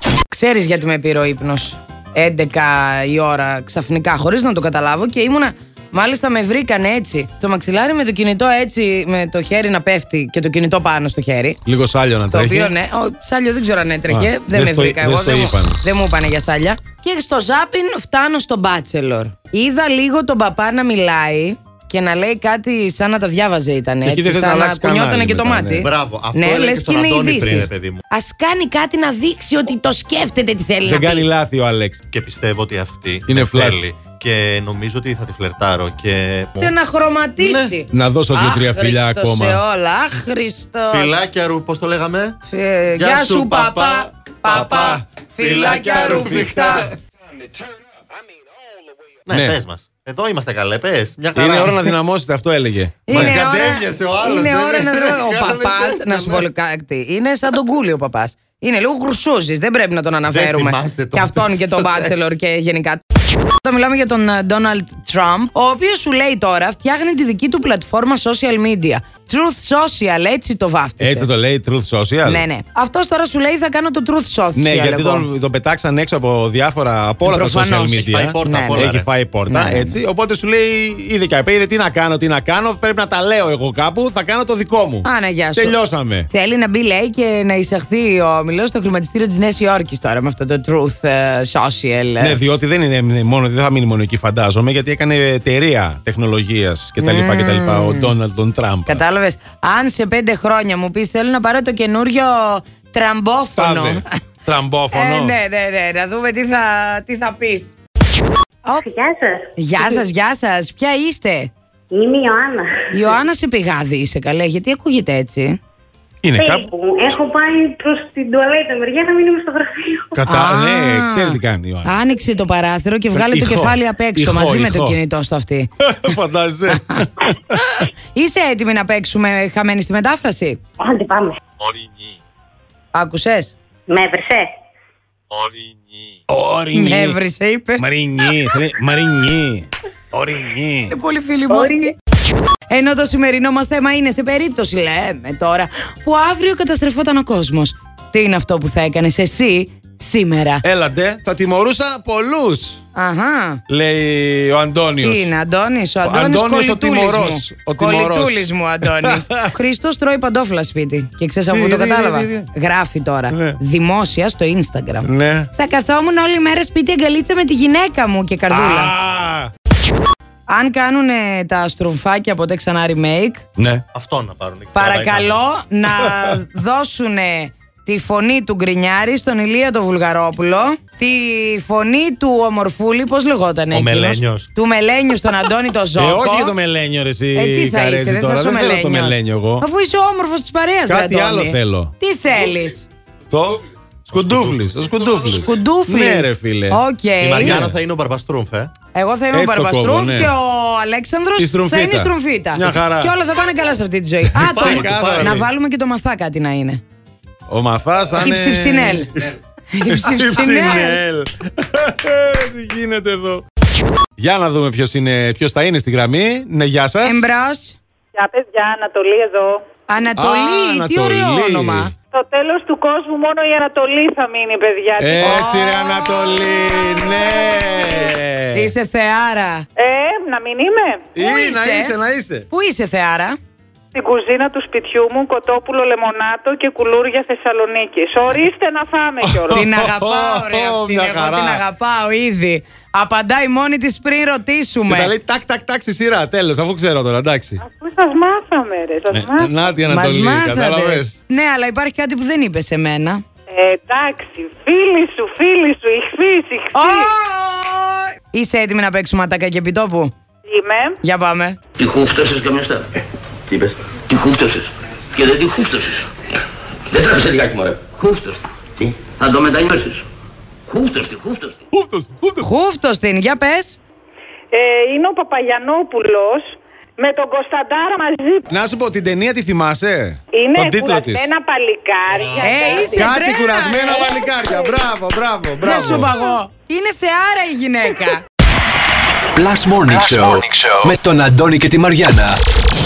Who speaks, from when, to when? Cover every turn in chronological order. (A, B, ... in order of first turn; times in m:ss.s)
0:00.3-0:11.6 A
0:11.7-0:12.7 B
0:12.3-0:31.2 A
0:14.1-0:15.8 B
0:24.0-0:25.9 B
0:25.8-0:28.0 C
0:30.8-0:32.0 B
0:32.1-0:36.8 C
0:33.3-0:33.8 B
0:36.6-0:41.1 A
0:37.4-0:37.8 C
0:37.9-0:39.6 B
0:40.9-0:42.4 C
0:42.5-0:46.9 A
0:43.0-0:47.0 C
0:44.5-0:45.0 B
0:49.2-0:51.9 C
0:49.3-0:49.6 B
0:51.4-0:53.4 B
0:53.1-1:11.3 A
0:53.1-0:56.4 C
1:00.3-1:02.1 C
1:11.0-1:12.4 B
1:12.2-1:15.3 A
1:14.6-1:26.3 B
1:17.3-1:18.9 A
1:18.0-1:19.1 C
1:19.5-1:20.0 A
1:25.0-1:25.8 A
1:26.3-1:32.4 A
1:32.2-1:39.0 B
1:37.0-1:38.1 A
1:38.9-1:44.1 A
1:43.6-1:45.4 B
1:44.9-1:47.8 A
1:48.8-1:49.6 D
1:49.6-1:51.5 A
1:51.9-1:53.1 D
1:52.9-1:55.6 A
1:56.2-1:56.7 B
1:56.4-2:00.2 D
2:00.1-2:01.9 B
2:00.3-2:05.7 A
2:03.1-2:05.0 B
2:05.8-2:07.4 B
2:07.0-2:10.6 A
2:10.8-2:11.4 D
2:12.9-2:13.5 A
2:13.9-2:14.5 D
2:15.3-2:15.6 E
2:16.3-2:17.2 B
2:16.7-2:17.8 A
2:17.8-2:21.0 B
2:20.9-2:21.9 A
2:21.5-2:21.9 D
2:22.7-2:30.6 A
2:30.6-2:32.8 B
2:32.9-2:33.6 A
2:33.7-2:35.3 B
2:35.0-2:48.9 A
2:36.0-2:39.5 B
2:41.5-2:42.5 B
2:43.3-2:43.6 B
2:45.0-2:45.5 B
2:48.5-2:49.5 B
2:50.5-2:53.4 A
2:53.6-2:53.8 B
2:53.9-2:55.4 C
2:54.7-3:06.5 A
2:56.0-2:56.3 B
3:03.7-3:04.5 C
3:06.0-3:09.7 B
3:07.3-3:12.9 A
3:10.9-3:11.9 B
3:13.3-3:16.8 B
3:14.1-3:14.5 C
3:15.3-3:17.7 A
3:17.2-3:18.7 C
3:17.4-3:17.7 B
3:18.9-3:26.8 A
3:19.3-3:20.3 B
3:21.4-3:23.1 B
3:24.4-3:25.5 B
3:24.4-3:25.4 C
3:27.5-3:29.1 B
3:28.2-3:29.1 A
3:29.7-3:31.0 A
3:29.8-3:33.4 B
3:34.2-3:37.2 B
3:37.0-3:37.8 A
3:38.1-3:39.6 F
3:39.9-3:41.9 A
3:40.2-3:41.9 B
3:42.1-3:45.4 F
3:45.0-3:48.7 B
3:45.2-3:46.5 A
3:46.9-3:48.1 F
3:48.5-3:49.7 A
3:49.8-3:51.1 F
3:51.1-3:52.4 B
3:51.2-3:51.9 A
3:52.5-3:53.4 A
3:53.9-3:59.6 F
3:59.2-4:01.6 B
3:59.5-4:05.1 A
4:04.9-4:07.6 B
4:07.6-4:09.6 F
4:09.1-4:11.1 B
4:09.9-4:13.2 A
4:13.5-4:17.1 F
4:16.7-4:20.1 A
4:20.5-4:21.0 F
4:21.0-4:21.6 A
4:21.8-4:22.9 E
4:23.5-4:26.1 E
4:26.9-4:30.0 E
4:30.7-4:31.6 E
4:31.7-4:32.5 B
4:32.4-4:33.8 A
4:34.5-4:38.5 F
4:38.5-4:41.3 B
4:40.3-4:43.3 F
4:42.4-4:44.1 A
4:42.9-4:46.1 B
4:44.2-4:44.7 F
4:45.6-4:48.2 A
4:49.4-4:52.4 G